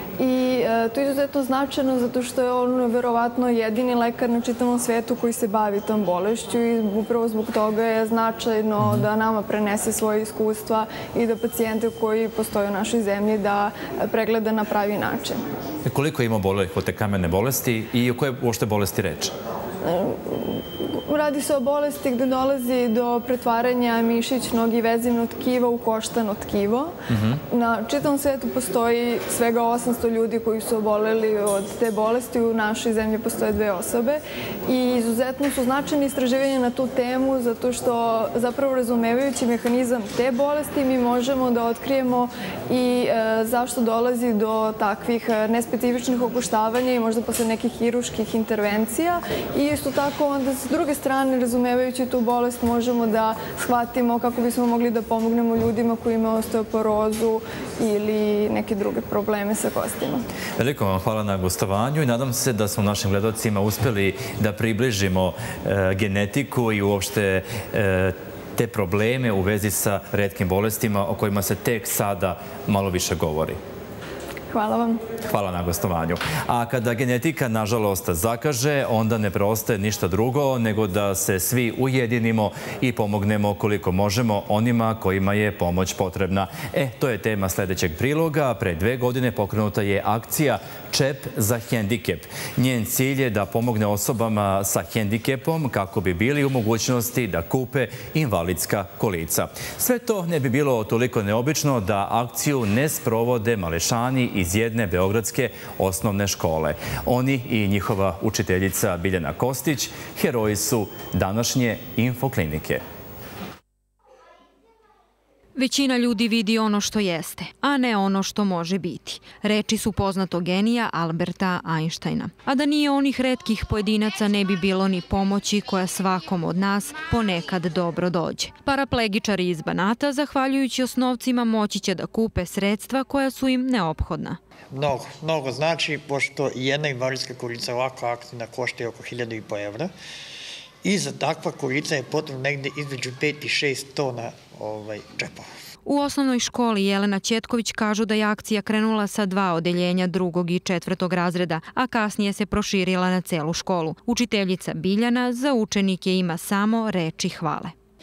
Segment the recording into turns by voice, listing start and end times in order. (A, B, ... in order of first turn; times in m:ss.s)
0:00.2-0:15.4 A
0:08.8-0:09.1 B
0:15.8-0:19.3 B
0:19.8-0:27.0 A
0:27.1-0:27.4 B
0:27.5-1:00.2 A
1:00.6-1:13.6 B
1:14.5-1:15.0 A
1:15.3-1:52.8 B
1:55.6-2:14.4 C
2:14.7-2:19.9 D
2:20.8-2:25.5 D
2:25.9-2:37.7 C